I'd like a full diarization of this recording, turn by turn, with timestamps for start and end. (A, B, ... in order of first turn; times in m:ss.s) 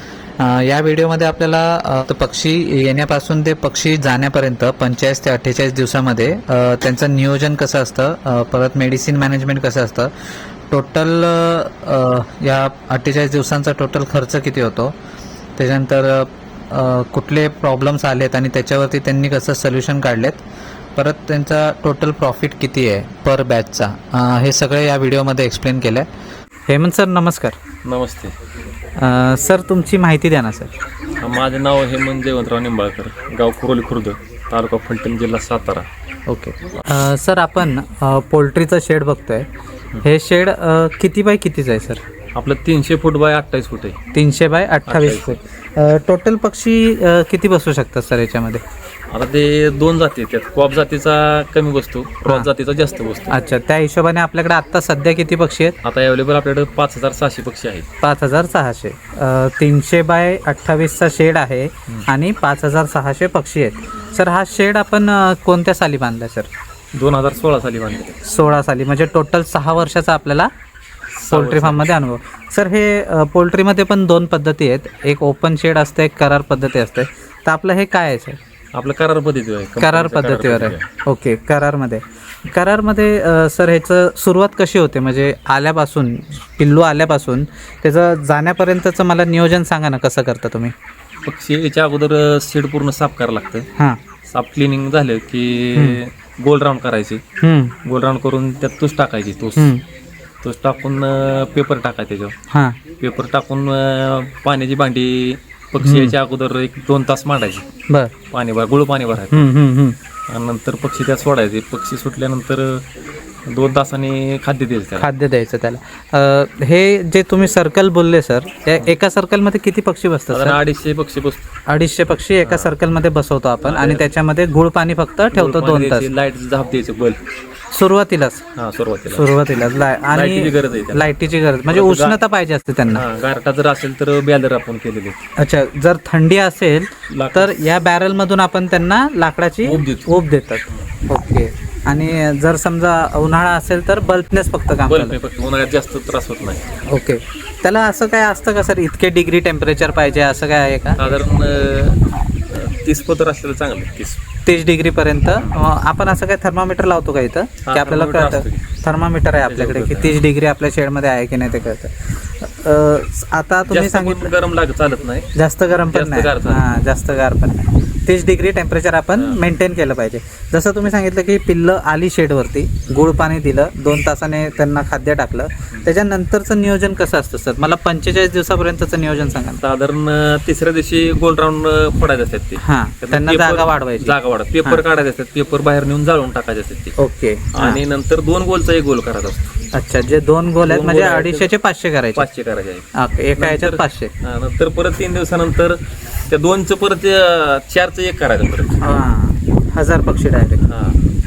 0:00.4-0:10.1 A
0:10.7-0:15.0 A
0:15.6-0:20.4 A
0:21.0-0:26.1 A
0:26.7-0:27.6 A
0:27.8-0:28.3 B
0:29.0-0:30.7 A
0:31.2-0:35.9 B
0:36.3-0:39.5 A
0:40.0-0:42.0 A
0:42.4-0:44.0 B
0:44.1-0:48.6 A
0:44.9-0:45.2 B
0:49.1-0:53.3 B
0:53.3-0:55.8 A
0:55.8-0:57.9 B
0:58.0-1:06.5 A
1:06.9-1:08.2 B
1:08.2-1:10.5 A
1:11.2-1:11.9 B
1:11.3-1:18.4 A
1:18.7-1:20.8 B
1:19.8-1:30.7 A
1:31.2-1:33.7 B
1:34.3-1:37.2 B
1:37.4-1:37.8 A
1:37.8-1:39.7 B
1:39.6-1:39.8 A
1:40.4-1:42.3 B
1:42.5-1:42.8 A
1:43.0-1:47.6 B
1:45.8-1:46.2 A
1:48.3-1:49.5 B
1:49.3-1:50.0 A
1:50.3-1:52.8 B
1:53.5-1:55.1 B
1:55.0-2:00.6 A
2:00.3-2:01.4 B
2:01.7-2:06.1 A
2:02.4-2:02.7 B
2:03.6-2:04.1 B
2:05.3-2:07.2 B
2:07.7-2:08.4 A
2:08.6-2:09.3 B
2:09.1-2:13.0 A
2:10.1-2:11.1 B
2:11.7-2:12.2 B
2:12.9-2:15.2 B
2:15.4-2:25.2 A
2:17.1-2:17.6 B
2:19.6-2:20.1 B
2:24.9-2:26.6 B
2:26.9-2:31.0 A
2:31.0-2:34.2 B
2:34.5-2:44.3 A
2:37.7-2:38.6 B
2:39.4-2:40.2 B
2:43.7-2:45.3 B
2:45.4-2:59.6 A
2:45.9-2:46.6 B
2:59.6-3:06.9 B
3:02.6-3:04.8 A
3:07.0-3:07.8 A
3:07.6-3:09.5 B
3:09.7-3:12.3 A
3:10.6-3:11.5 B
3:12.2-3:15.8 B
3:13.0-3:14.1 A
3:16.3-3:18.9 B
3:18.8-3:20.6 A
3:20.6-3:21.0 B